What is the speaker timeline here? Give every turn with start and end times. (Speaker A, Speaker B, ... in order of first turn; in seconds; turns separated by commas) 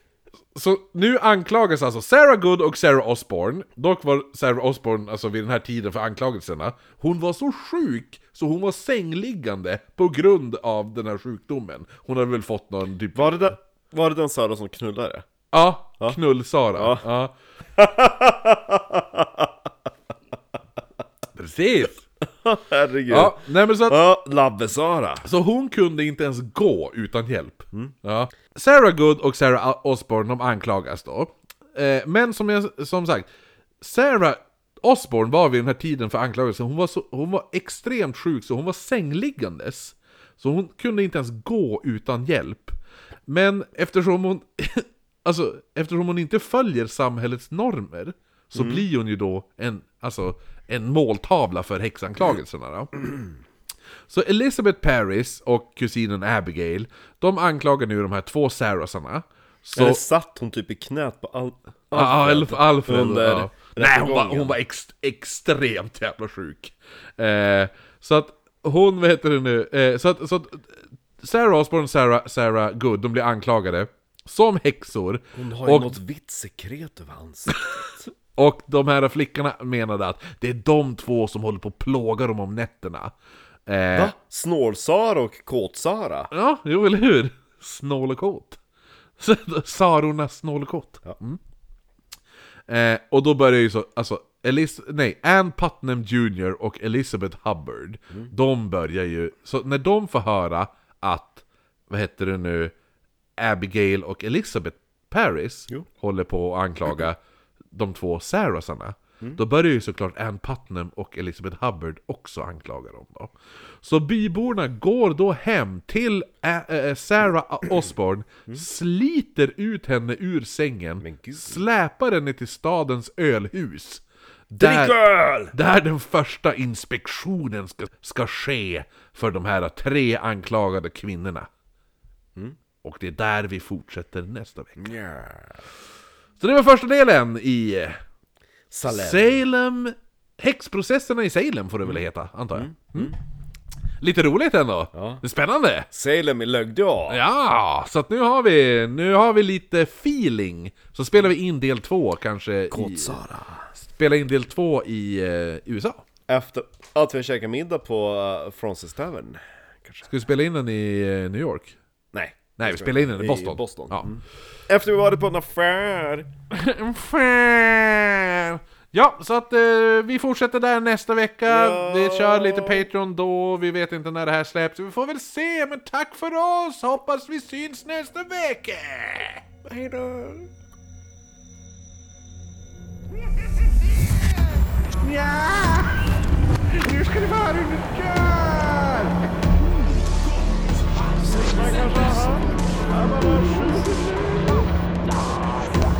Speaker A: 0.5-13.5, Speaker B: 13.1-15.2, Speaker A: 15.5-17.3, Speaker B: 16.7-17.0, Speaker B: 17.8-19.5, Speaker A: 21.4-22.0, Speaker B: 22.4-25.2, Speaker A: 23.1-24.0, Speaker A: 25.2-33.3, Speaker A: 33.8-53.1, Speaker B: 48.5-48.8, Speaker A: 54.1-60.0, Speaker B: 59.7-64.6, Speaker A: 61.9-76.0, Speaker B: 75.3-78.1, Speaker A: 78.3-83.1, Speaker A: 83.7-84.1, Speaker B: 83.9-86.3, Speaker A: 86.3-88.6, Speaker A: 89.2-91.4, Speaker A: 92.7-102.7, Speaker A: 103.4-107.2, Speaker A: 107.7-131.5, Speaker B: 121.0-121.6, Speaker B: 124.6-125.5, Speaker A: 132.8-134.8, Speaker B: 134.8-135.6, Speaker A: 136.4-138.0, Speaker B: 138.7-139.4, Speaker A: 138.8-143.2, Speaker B: 142.5-143.2, Speaker A: 144.0-145.9, Speaker B: 144.9-145.2, Speaker B: 145.9-147.2, Speaker A: 147.1-153.2, Speaker B: 152.7-153.7, Speaker A: 153.8-156.0, Speaker B: 156.3-160.1, Speaker A: 160.1-161.8, Speaker B: 162.1-166.3, Speaker A: 162.6-164.1, Speaker A: 166.5-179.5, Speaker B: 171.4-172.8, Speaker B: 179.7-180.5, Speaker A: 185.0-186.1, Speaker A: 186.7-189.3, Speaker A: 191.1-192.4, Speaker B: 191.2-194.7